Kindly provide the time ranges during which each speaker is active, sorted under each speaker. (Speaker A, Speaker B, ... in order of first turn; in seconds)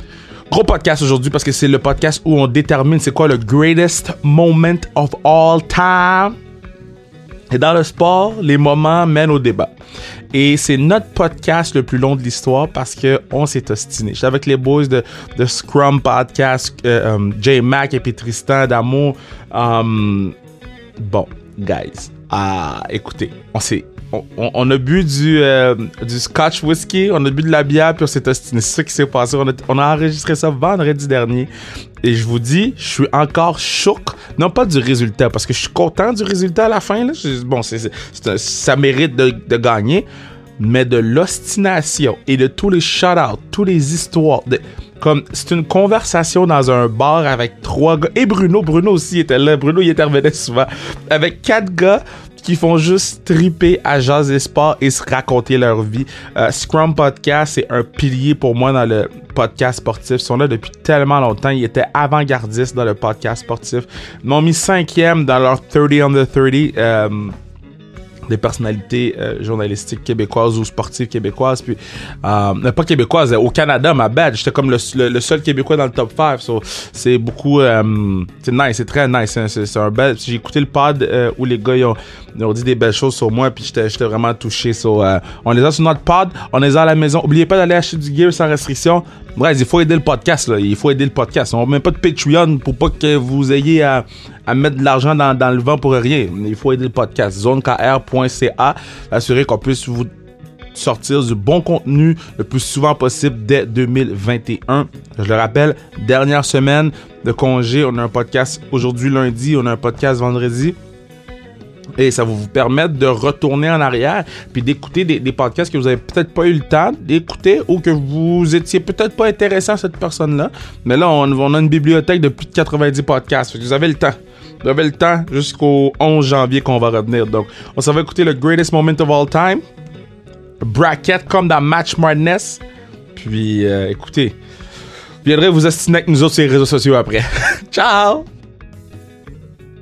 Speaker A: 0.5-6.3, 7.5-9.7, 10.3-20.3, 21.0-31.5, 32.0-40.0, 40.6-67.3, 68.3-100.1, 100.7-110.8, 112.0-129.6, 130.6-132.6, 133.1-134.3, 135.2-138.2